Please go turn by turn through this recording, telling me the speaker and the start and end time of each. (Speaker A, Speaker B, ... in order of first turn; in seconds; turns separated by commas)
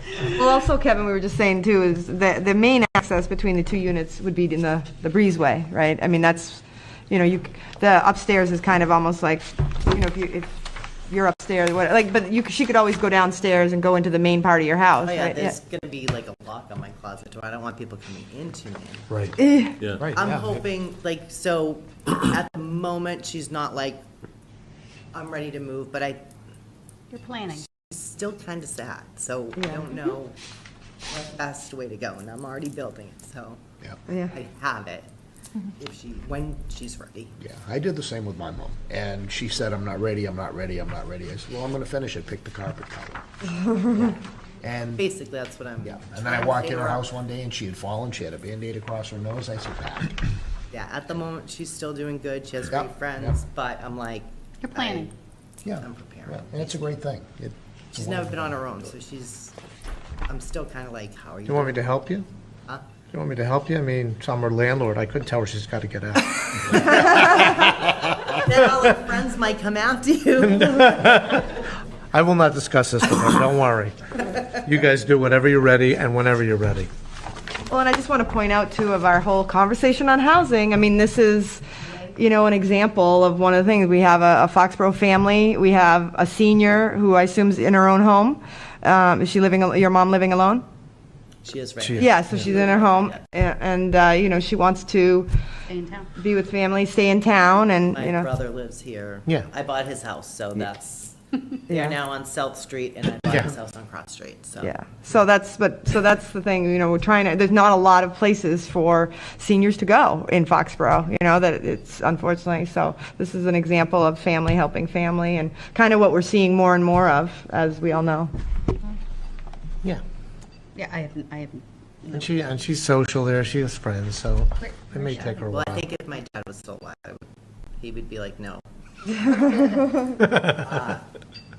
Speaker A: 0.2-15.6, Speaker B: 15.0-19.1, Speaker C: 19.1-19.3, Speaker A: 19.4-19.8, Speaker C: 19.9-20.6, Speaker B: 20.1-24.0, Speaker B: 25.1-26.2, Speaker D: 27.1-27.7, Speaker B: 27.5-30.4, Speaker A: 29.6-29.9, Speaker B: 31.1-33.6, Speaker A: 34.1-34.3, Speaker B: 34.3-35.1, Speaker B: 35.8-37.3, Speaker E: 37.4-43.2, Speaker E: 43.8-45.0, Speaker B: 45.0-47.1, Speaker E: 45.8-50.2, Speaker B: 50.7-55.1, Speaker E: 52.7-53.3, Speaker D: 54.6-55.1, Speaker E: 55.6-57.4, Speaker B: 55.7-56.8, Speaker B: 57.9-59.5, Speaker E: 57.9-58.3, Speaker B: 60.3-61.8, Speaker C: 61.5-62.3, Speaker C: 63.1-67.4, Speaker B: 67.1-71.0, Speaker C: 70.4-76.9, Speaker A: 77.7-90.6, Speaker B: 91.4-93.2, Speaker C: 91.8-92.4, Speaker A: 92.0-95.3, Speaker D: 95.7-96.1, Speaker A: 96.2-98.3, Speaker B: 97.9-101.2, Speaker A: 101.7-101.9, Speaker B: 101.7-104.7, Speaker A: 104.6-118.3, Speaker D: 120.8-122.3, Speaker C: 122.1-125.8, Speaker D: 124.9-125.3, Speaker B: 125.5-127.2, Speaker B: 127.8-128.6, Speaker A: 129.3-130.2, Speaker C: 130.2-130.5, Speaker B: 130.4-131.0